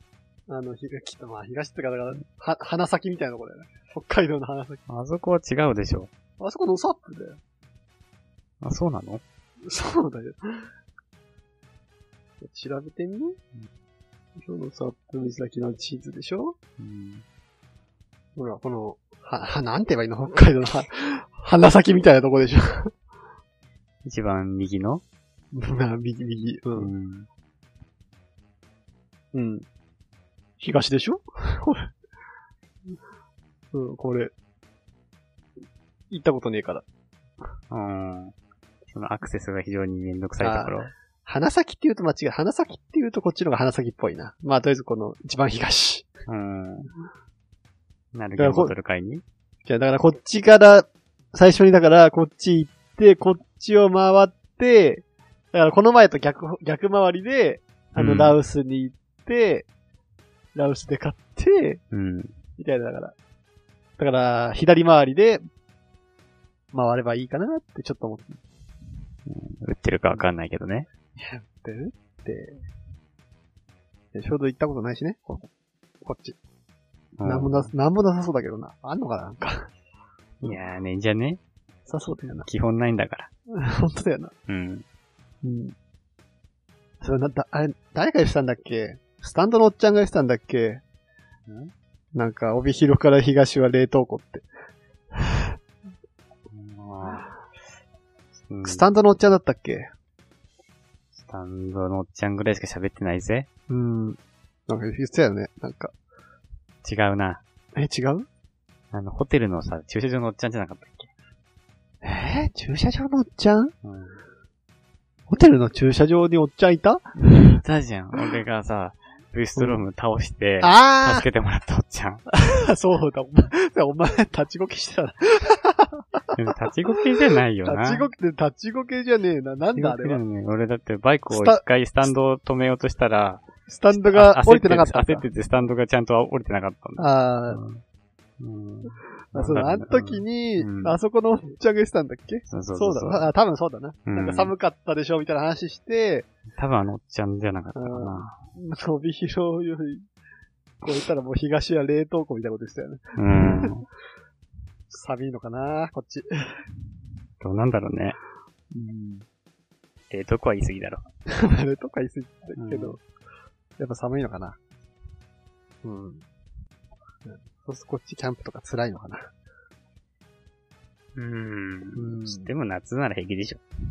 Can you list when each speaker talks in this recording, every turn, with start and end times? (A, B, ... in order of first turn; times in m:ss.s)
0:00.5-0:04.8 A
0:04.9-0:06.1 B
0:06.4-0:07.4 A
0:08.6-0:09.2 B
0:09.6-0:10.7 A
0:12.4-0:13.4 A
0:14.4-0:16.6 A
0:16.8-0:17.2 B
0:18.4-0:22.9 A
0:24.0-0:25.0 B
0:25.5-0:26.9 A
0:26.7-0:27.3 B
0:29.3-0:29.6 A
0:30.6-0:31.9 A
0:33.7-0:34.3 A
0:36.1-0:36.8 A
0:37.7-0:38.3 B
0:38.9-0:40.9 B
0:40.4-0:46.1 A
0:46.3-0:46.9 B
0:48.1-0:49.2 B
0:48.4-0:48.7 A
0:49.6-0:59.7 A
0:58.0-0:58.4 B
1:00.5-1:01.8 A
1:01.9-1:02.4 B
1:02.6-1:03.1 A
1:04.0-1:05.4 A
1:06.7-1:08.4 A
1:09.3-1:10.9 B
1:11.2-1:12.6 A
1:14.1-1:15.5 A
1:16.0-1:16.4 A
1:17.2-1:17.7 B
1:17.2-1:19.7 A
1:20.4-1:21.4 B
1:21.9-1:22.5 A
1:22.4-1:23.3 B
1:23.5-1:24.3 A
1:24.5-1:24.8 B
1:25.4-1:25.7 A
1:27.0-1:30.8 A
1:31.5-1:31.7 B
1:32.1-1:34.4 A
1:35.2-1:35.4 A
1:36.5-1:37.3 B
1:38.5-1:38.9 B
1:38.6-1:39.9 A
1:41.1-1:43.5 B
1:43.7-1:45.9 A
1:46.8-1:47.4 B
1:47.7-1:48.3 A
1:48.9-1:51.1 B
1:52.0-1:53.7 A
1:53.8-1:54.2 B
1:55.3-1:57.6 A
1:57.3-2:02.2 B
1:59.6-1:59.8 A
2:00.6-2:01.2 A
2:02.3-2:06.0 A
2:06.3-2:08.1 B
2:07.6-2:10.2 A
2:09.7-2:17.8 B
2:11.3-2:12.1 A
2:13.7-2:15.3 A
2:17.0-2:17.6 A
2:18.4-2:21.0 B
2:19.3-2:26.3 A
2:22.5-2:23.3 B
2:24.0-2:24.5 B
2:26.5-2:28.4 B
2:27.7-2:30.0 A
2:30.8-2:33.7 A
2:33.1-2:33.8 B
2:34.9-2:36.6 A
2:37.4-2:38.2 B
2:38.7-2:39.2 A
2:40.1-2:41.0 B
2:41.3-2:43.0 A
2:42.6-2:43.0 B
2:43.8-2:44.6 A
2:45.8-2:46.2 A
2:47.2-2:49.3 A
2:51.2-2:53.6 B
2:51.9-2:52.5 A